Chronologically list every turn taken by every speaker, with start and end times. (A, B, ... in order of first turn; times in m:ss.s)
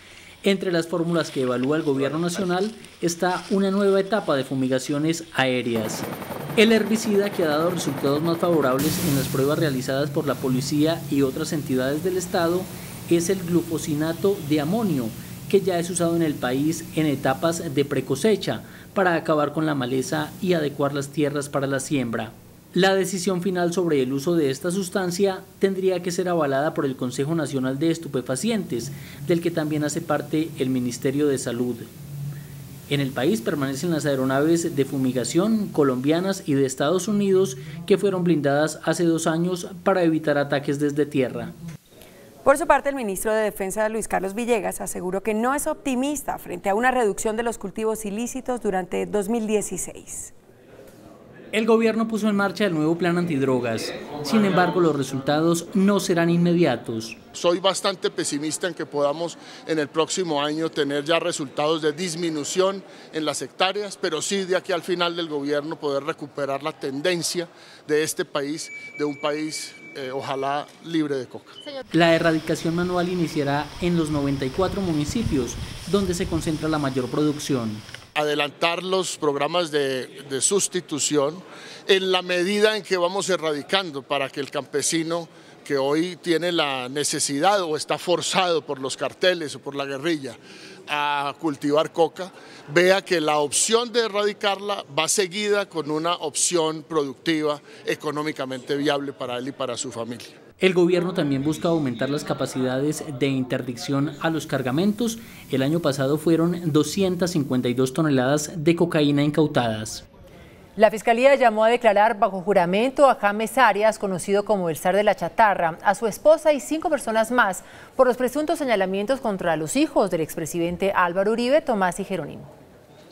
0:00.4-0:31.9 A
0:32.9-0:41.5 A
0:42.4-0:50.3 B
0:51.5-0:57.2 A
0:57.4-1:11.5 C
1:11.9-1:17.8 A
1:18.2-1:30.4 C
1:30.9-1:40.3 C
1:40.6-1:50.0 A
1:50.8-2:02.5 D